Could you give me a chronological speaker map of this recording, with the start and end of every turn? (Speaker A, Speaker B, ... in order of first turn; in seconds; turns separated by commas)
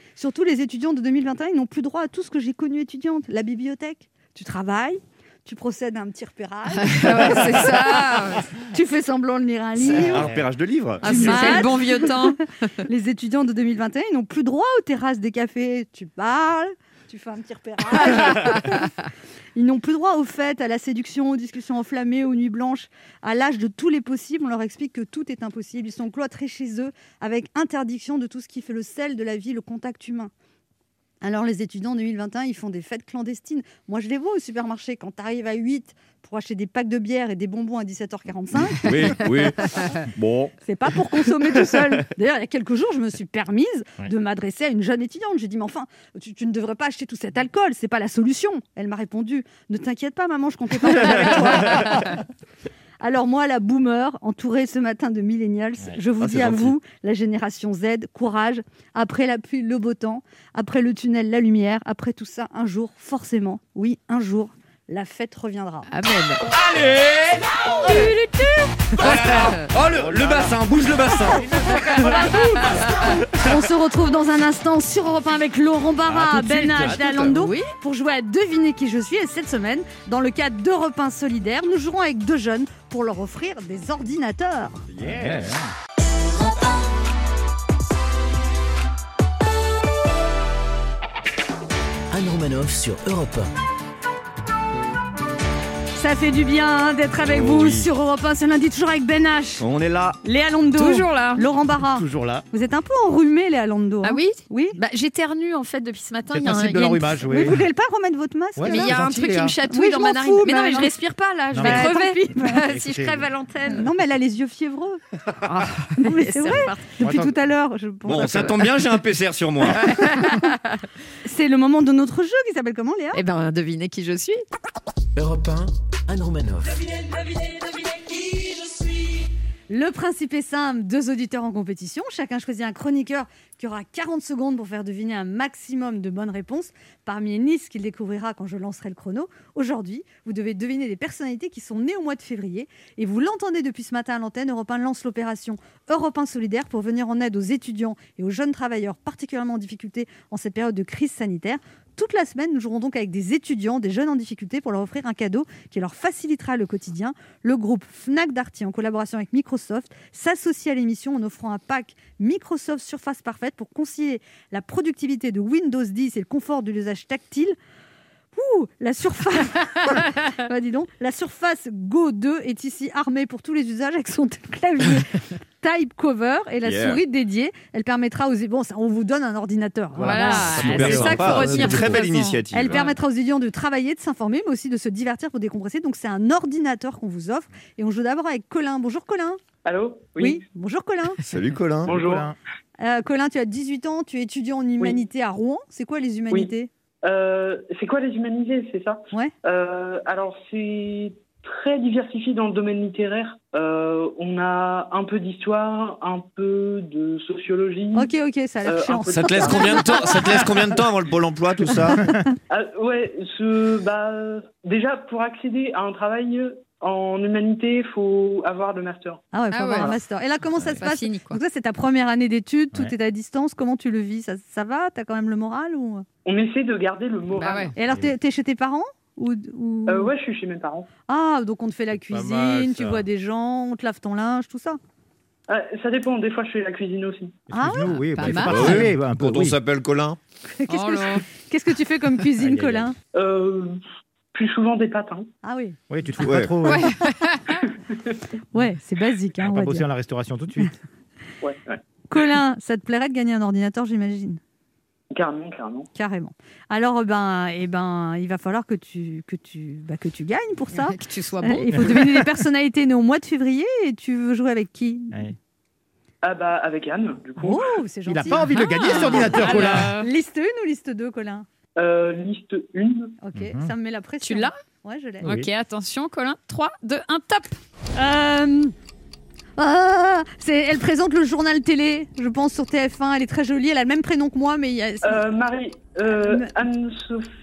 Speaker A: 0.2-10.3, Speaker B: 6.7-8.5, Speaker C: 9.9-11.7, Speaker D: 10.2-10.4, Speaker B: 11.0-12.4, Speaker A: 11.0-18.9, Speaker A: 19.5-30.3, Speaker A: 31.2-39.5, Speaker C: 38.8-40.5, Speaker A: 40.6-52.1, Speaker A: 53.0-65.9, Speaker C: 56.2-56.7, Speaker B: 65.9-66.5, Speaker C: 66.5-67.5, Speaker B: 67.8-69.7, Speaker C: 69.0-72.1, Speaker D: 69.9-70.6, Speaker D: 71.4-71.8, Speaker A: 71.8-84.8, Speaker C: 76.7-77.3, Speaker B: 77.0-77.7, Speaker C: 84.9-85.5, Speaker D: 85.0-85.7, Speaker E: 92.1-93.5, Speaker A: 96.0-99.6, Speaker C: 97.2-97.8, Speaker C: 99.6-100.2, Speaker A: 100.2-104.8, Speaker B: 100.8-101.4, Speaker D: 102.0-102.5, Speaker B: 104.0-107.2, Speaker D: 106.3-107.6, Speaker A: 107.2-109.1, Speaker D: 108.5-109.6, Speaker B: 108.7-113.9, Speaker A: 109.6-112.7, Speaker D: 111.5-111.9, Speaker D: 112.4-113.3, Speaker A: 113.6-115.0, Speaker B: 115.4-116.8, Speaker A: 116.0-118.6, Speaker D: 117.0-117.3, Speaker C: 118.1-119.9, Speaker B: 119.8-120.6, Speaker A: 121.2-123.2, Speaker B: 123.1-124.4, Speaker E: 125.2-126.8, Speaker A: 129.7-167.6, Speaker A: 168.3-189.4, Speaker C: 176.6-177.0, Speaker D: 179.9-181.9, Speaker B: 180.0-182.9, Speaker C: 180.5-182.9, Speaker F: 189.6-190.4, Speaker A: 190.2-191.2, Speaker C: 191.2-192.0, Speaker F: 191.8-192.3, Speaker D: 191.8-192.3, Speaker A: 192.8-196.7, Speaker F: 197.0-208.1, Speaker A: 207.9-210.4, Speaker F: 208.6-210.3, Speaker C: 209.1-212.2, Speaker F: 212.5-219.2, Speaker A: 219.3-226.0, Speaker B: 219.5-219.9, Speaker B: 220.6-221.4, Speaker F: 226.2-227.7, Speaker B: 227.3-227.7, Speaker A: 227.7-230.1, Speaker F: 229.9-230.9, Speaker A: 231.1-234.8, Speaker D: 232.1-233.0, Speaker F: 235.5-237.4, Speaker D: 237.5-239.6, Speaker A: 237.5-238.5, Speaker B: 238.1-238.9, Speaker C: 238.5-240.2, Speaker A: 240.5-242.9, Speaker B: 240.7-241.2, Speaker D: 242.4-242.9, Speaker F: 243.1-243.8, Speaker F: 244.3-245.3, Speaker A: 245.4-245.8, Speaker D: 245.9-246.9, Speaker C: 246.2-246.5, Speaker B: 246.7-247.6, Speaker A: 248.5-249.8, Speaker D: 249.4-250.7, Speaker F: 251.4-251.8, Speaker A: 252.1-254.4, Speaker F: 255.1-255.9, Speaker A: 255.9-265.2, Speaker B: 260.7-262.2, Speaker F: 266.2-267.8, Speaker A: 267.4-271.4, Speaker D: 268.1-269.9, Speaker B: 268.4-270.1, Speaker F: 271.8-273.1, Speaker A: 273.2-275.4, Speaker D: 273.3-273.7, Speaker B: 274.2-274.6, Speaker D: 275.2-275.5, Speaker B: 275.2-277.6, Speaker A: 277.9-278.7, Speaker A: 279.6-285.3, Speaker F: 285.0-287.3, Speaker A: 286.1-286.5